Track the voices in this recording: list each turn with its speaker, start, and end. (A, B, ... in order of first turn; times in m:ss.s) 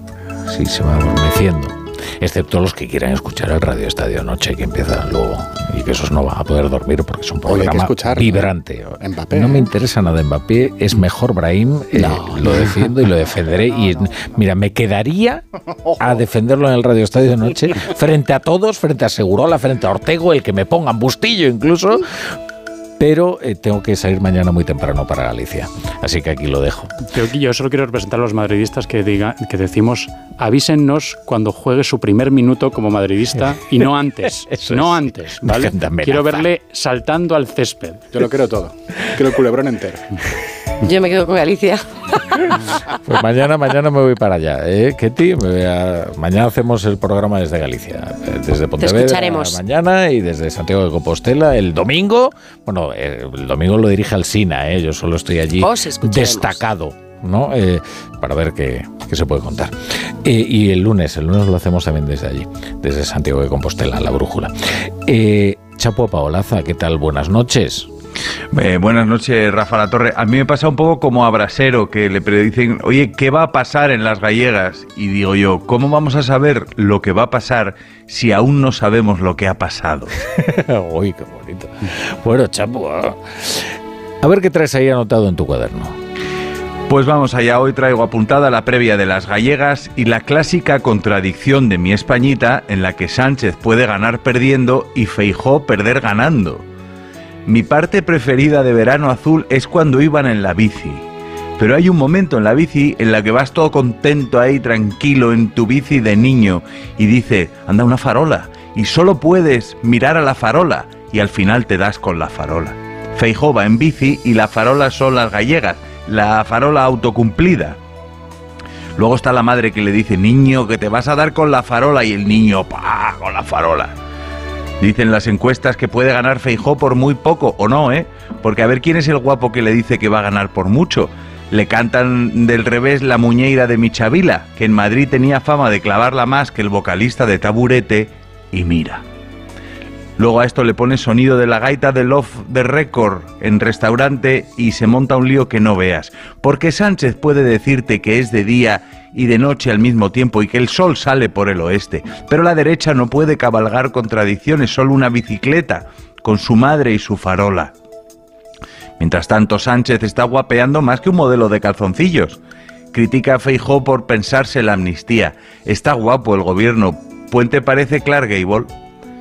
0:00.5-0:15.4 A
0:07.5-0:08.5 B
0:09.0-0:09.7 B
0:16.0-0:22.0 A
0:23.0-0:27.0 A
0:27.1-0:38.1 C
0:34.5-0:36.4 A
0:38.1-0:40.0 B
0:40.8-0:41.9 D
0:43.0-1:04.5 A
0:48.8-0:49.6 D
0:55.6-0:56.6 D
1:05.0-1:07.9 A
1:08.5-1:20.1 E
1:20.4-1:26.0 A
1:26.9-1:36.6 E
1:37.4-1:41.0 E
1:41.6-1:57.8 E
1:59.0-2:04.0 E
2:04.8-2:19.0 E
2:20.2-2:37.7 E
2:39.0-2:42.4 E
2:42.9-2:48.7 E